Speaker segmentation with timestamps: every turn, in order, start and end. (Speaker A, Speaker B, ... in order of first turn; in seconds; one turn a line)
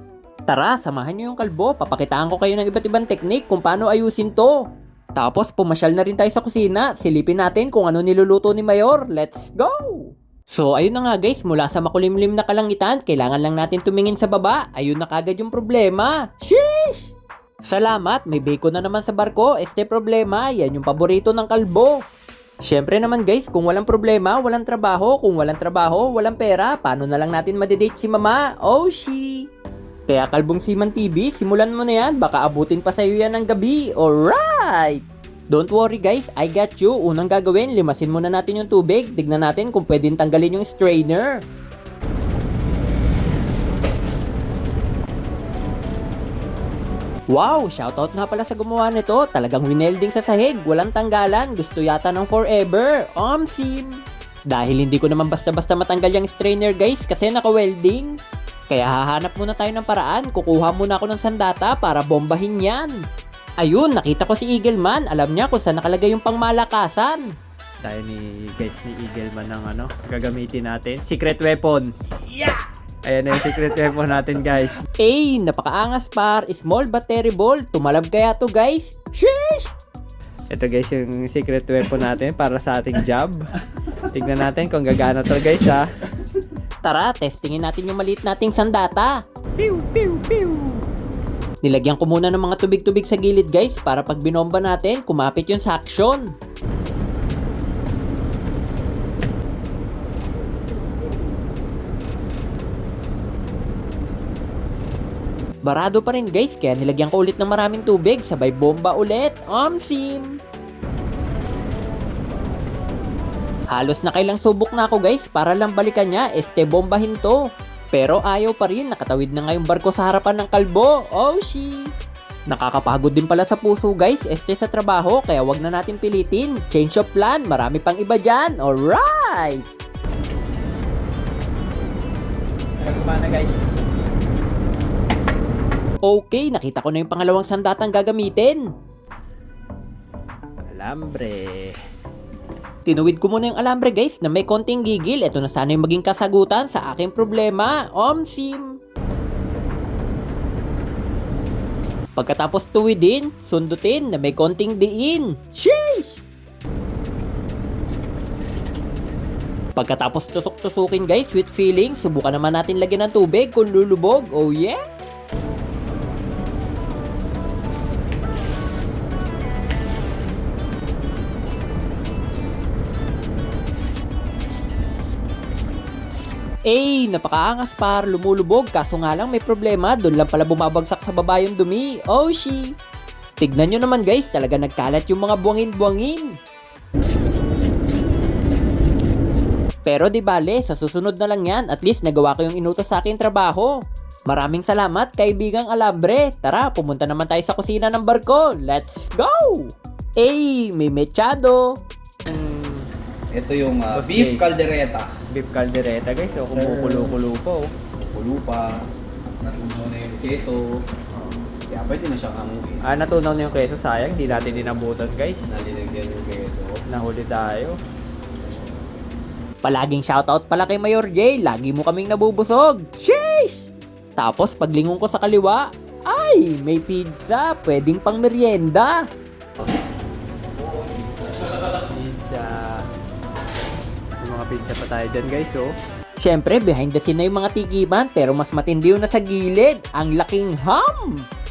Speaker A: 0.5-4.6
Speaker A: 5.2-17.1
Speaker A: 17.7-22.0
Speaker A: 22.6-29.5
Speaker A: 30.1-41.5
Speaker A: 47.3-58.2
Speaker A: 58.7-63.0
Speaker A: 63.6-67.3
Speaker B: 67.8-71.9
Speaker B: 73.0-74.8
Speaker A: 75.0-79.7
Speaker B: 80.5-83.5
Speaker B: 84.1-85.9
Speaker A: 86.8-90.8
Speaker A: 91.6-96.3
Speaker A: 105.7-110.4
Speaker A: 113.7-117.4
Speaker A: 117.9-121.9
Speaker A: 122.5-129.7
Speaker B: 132.8-133.6
Speaker A: 136.0-138.7
Speaker B: 140.7-141.8
Speaker A: 142.8-148.8
Speaker A: 152.2-156.2
Speaker A: 159.8-164.8
Speaker A: 176.7-182.8
Speaker A: 183.4-186.3
Speaker A: 189.9-201.8
Speaker B: 202.3-202.9
Speaker C: 203.3-205.2
Speaker B: 203.9-204.5
Speaker B: 205.3-207.7
Speaker C: 206.5-207.1
Speaker C: 208.0-208.9
Speaker C: 209.4-210.8
Speaker C: 211.7-212.9
Speaker B: 212.8-215.5
Speaker C: 215.4-216.8
Speaker B: 216.9-217.8
Speaker A: 219.6-223.7
Speaker A: 224.2-229.0
Speaker B: 231.9-232.8
Speaker B: 234.2-235.7
Speaker A: 236.2-241.3